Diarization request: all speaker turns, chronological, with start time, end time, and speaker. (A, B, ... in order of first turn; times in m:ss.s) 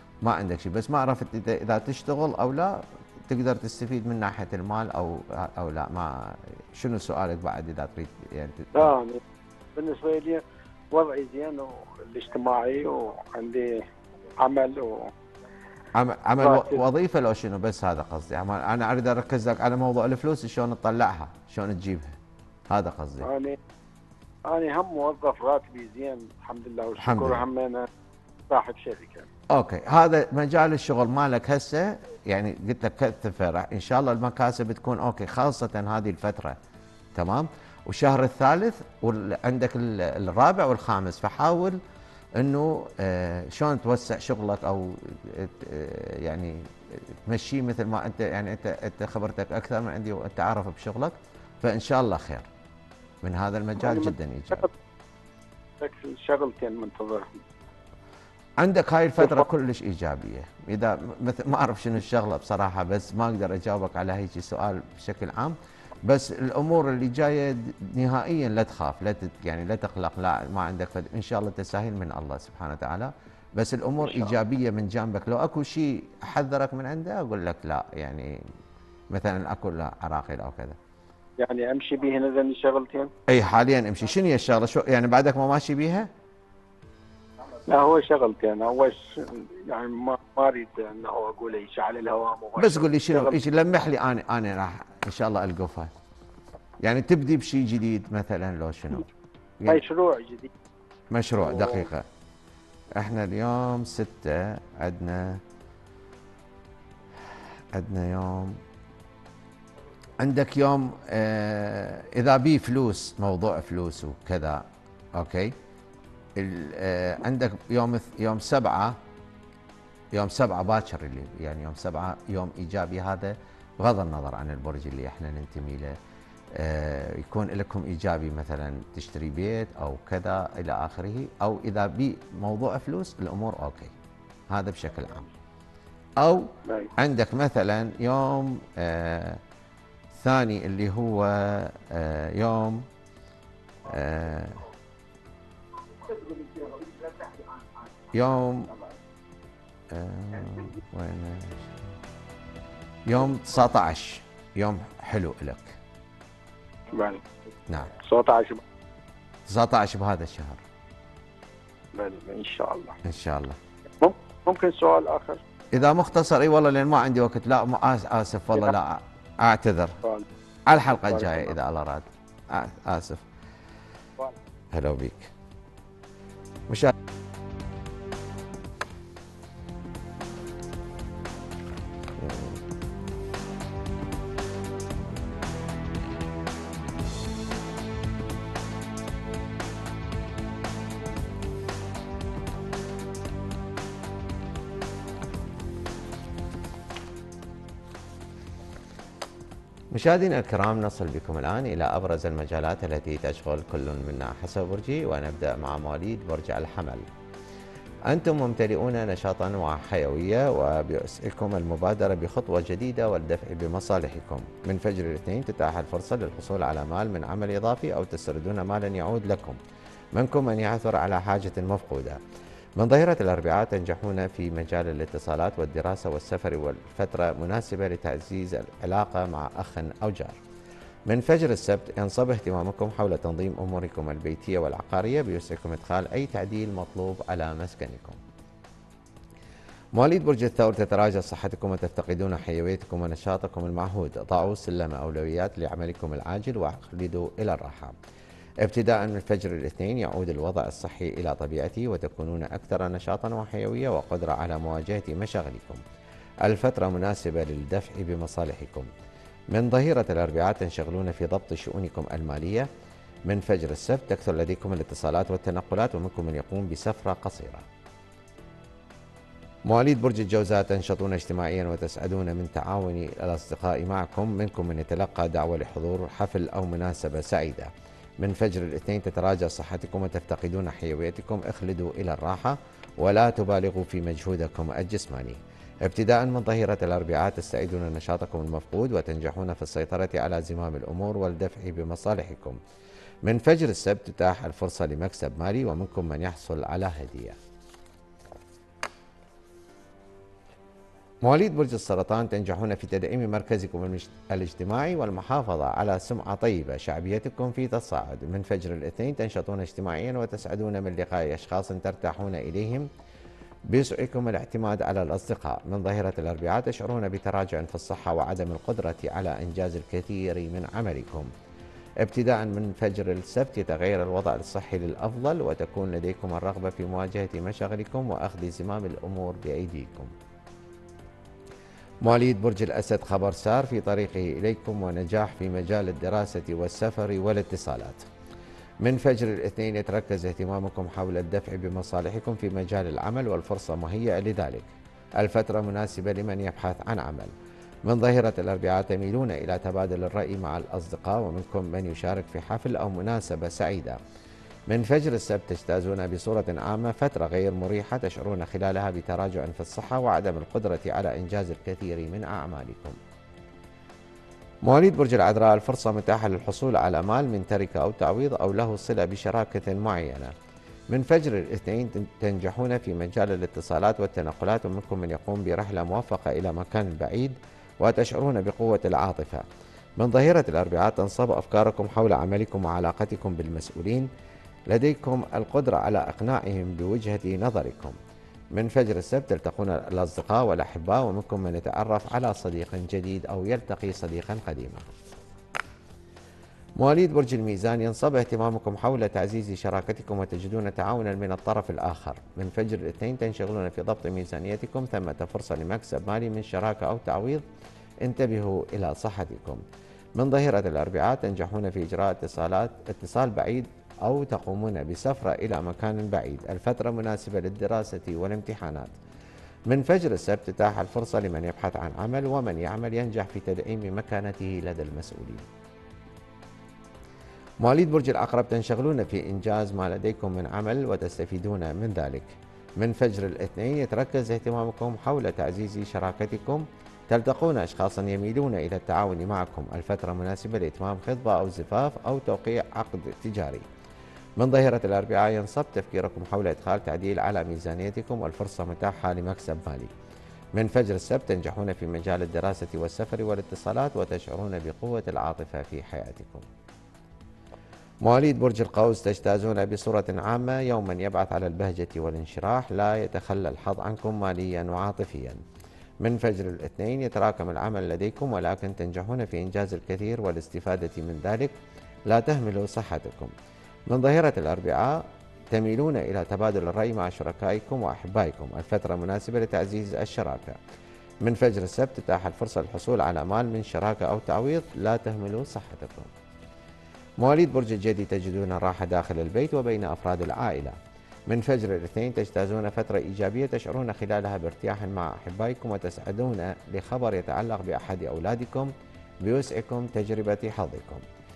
0:00.2-0:08.9 A
0:08.8-0:09.2 B
0:09.8-0:10.4 B
0:10.9-0:13.7 B
0:14.4-0:15.0 B
0:15.9-0:22.2 A
0:16.4-0:16.8 B
0:22.7-0:23.3 A
0:23.3-0:23.6 B
0:24.5-0:27.9 B
0:27.0-0:27.4 A
0:28.5-0:29.2 B
0:29.5-0:36.6 A
0:37.2-0:41.8 A
0:42.4-0:52.5 A
0:53.2-0:54.7 A
0:55.8-0:57.3 B
0:58.6-1:18.4 A
1:19.1-1:20.8 A
1:21.4-1:23.1 B
1:23.3-1:26.1 A
1:27.7-1:33.2 B
1:32.6-1:35.9 A
1:36.8-1:39.1 A
1:39.7-1:40.5 B
1:41.1-1:42.1 A
1:43.0-1:45.4 A
1:47.7-1:48.6 A
1:50.2-1:55.6 A
1:56.4-1:59.0 A
2:00.1-2:06.0 A
2:06.5-2:13.9 A
2:14.5-2:15.3 A
2:16.2-2:19.4 A
2:20.1-2:22.9 A
2:23.8-2:24.7 A
2:28.1-2:28.8 A
2:29.9-2:31.8 A
2:33.1-2:35.8 A
2:36.9-2:37.2 B
2:37.7-2:37.9 A
2:38.1-2:38.6 B
2:39.5-2:40.6 A
2:42.0-2:42.9 B
2:43.0-2:43.6 A
2:44.0-2:45.4 B
2:45.7-2:50.0 A
2:50.7-2:53.2 A
2:54.7-2:55.3 A
3:02.2-3:02.6 A
3:19.9-3:27.1 A
3:28.1-3:39.6 A
3:40.1-3:42.2 A
3:42.8-3:50.4 A
3:51.1-3:58.2 A
4:00.0-4:08.0 A
4:08.6-4:15.8 A
4:16.4-4:18.9 A
4:19.5-4:22.7 A
4:23.3-4:27.7 A
4:29.7-4:52.6 A
4:53.2-4:57.4 A
5:01.2-5:12.9 A
5:13.7-5:21.3 A
5:22.0-5:30.1 A
5:32.0-5:38.1 A
5:38.8-5:47.3 A
5:47.8-5:54.0 A
5:54.7-6:03.0 A
6:04.6-6:10.3 A
6:10.9-6:19.4 A
6:20.0-6:24.1 A
6:24.7-6:28.0 A
6:28.5-6:34.9 A
6:36.8-6:47.4 A
6:48.0-6:49.6 A
6:50.2-6:59.0 A
6:59.7-7:05.5 A
7:07.6-7:23.7 A
7:24.4-7:29.9 A
7:30.6-7:36.5 A
7:38.0-7:45.4 A
7:46.0-7:51.6 A
7:52.1-7:53.3 A
7:53.9-8:00.6 A
8:01.2-8:06.1 A
8:07.2-8:10.8 A
8:11.3-8:18.7 A
8:19.2-8:21.0 A